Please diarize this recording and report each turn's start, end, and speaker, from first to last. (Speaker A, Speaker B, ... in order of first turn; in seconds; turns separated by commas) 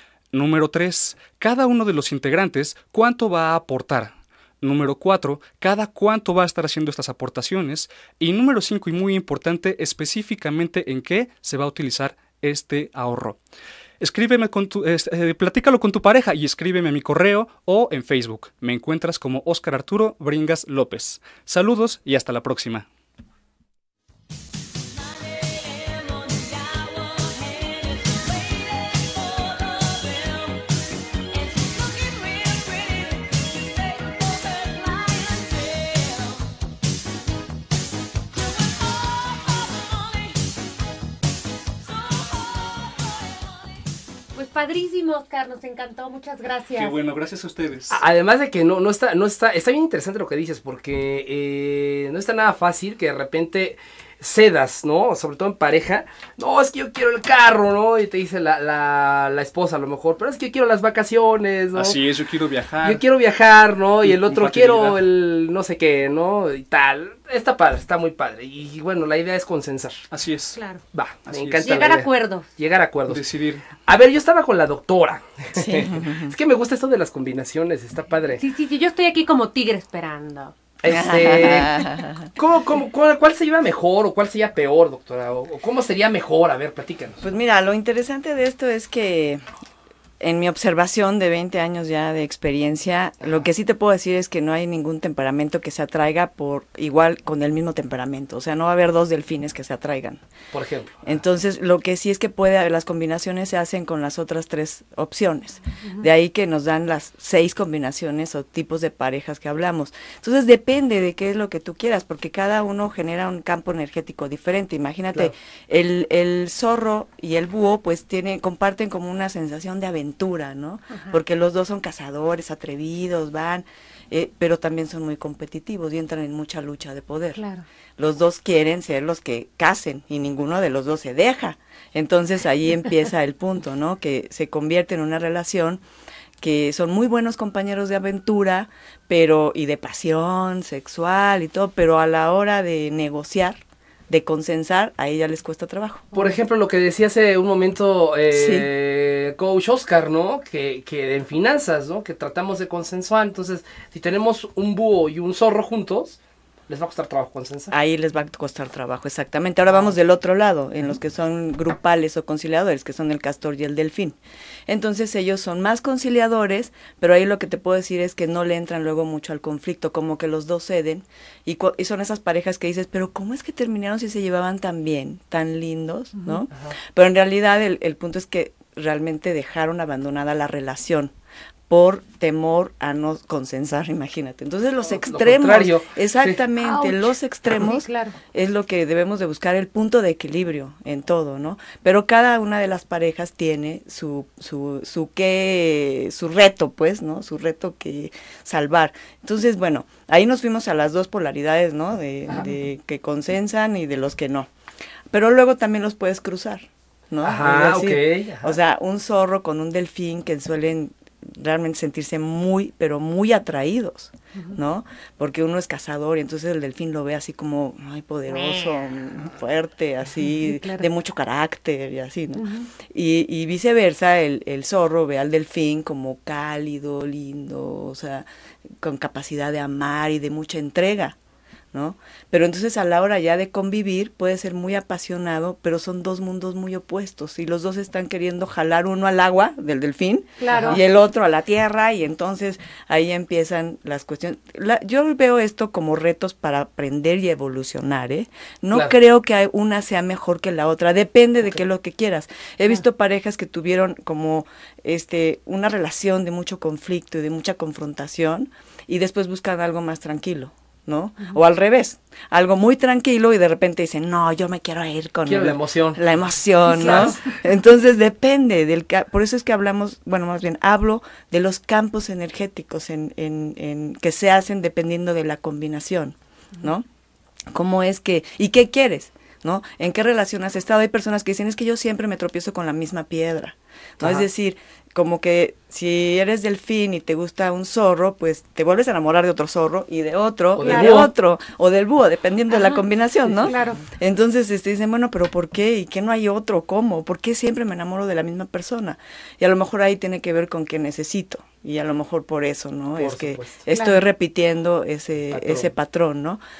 Speaker A: 0.3-13.4, Speaker A: 14.0-22.9, Speaker B: 44.3-47.0, Speaker A: 46.8-48.0, Speaker C: 47.9-62.0, Speaker A: 61.7-63.0, Speaker C: 62.8-70.0, Speaker A: 64.0-65.0, Speaker A: 70.1-70.6, Speaker B: 70.5-70.8, Speaker C: 70.9-73.2, Speaker A: 71.3-71.9, Speaker B: 71.6-72.5, Speaker A: 73.1-73.7, Speaker C: 73.8-78.4, Speaker D: 75.6-76.3, Speaker B: 78.4-80.5, Speaker C: 80.8-81.7, Speaker D: 80.9-82.3, Speaker C: 82.3-87.2, Speaker D: 87.2-89.4, Speaker D: 90.2-100.2, Speaker C: 100.5-101.0, Speaker D: 101.0-127.4, Speaker B: 120.9-121.2, Speaker B: 127.3-127.7, Speaker D: 128.0-135.8, Speaker D: 136.4-146.1, Speaker C: 146.1-157.7, Speaker D: 148.3-148.7, Speaker D: 157.7-164.2, Speaker D: 164.7-181.1, Speaker D: 181.7-204.5, Speaker C: 184.9-186.4, Speaker B: 186.6-188.2, Speaker D: 205.1-228.2, Speaker C: 207.2-208.6, Speaker B: 218.3-219.0, Speaker B: 220.2-220.9, Speaker B: 222.4-222.7, Speaker D: 228.8-231.2, Speaker D: 231.7-276.8, Speaker B: 240.4-240.8, Speaker C: 240.5-240.8, Speaker C: 265.2-266.0, Speaker C: 266.7-267.2, Speaker D: 277.5-306.4, Speaker C: 290.6-291.1, Speaker B: 290.6-291.1, Speaker B: 292.5-292.8, Speaker B: 293.4-293.8, Speaker C: 303.0-303.6, Speaker B: 303.7-304.0, Speaker C: 305.3-305.7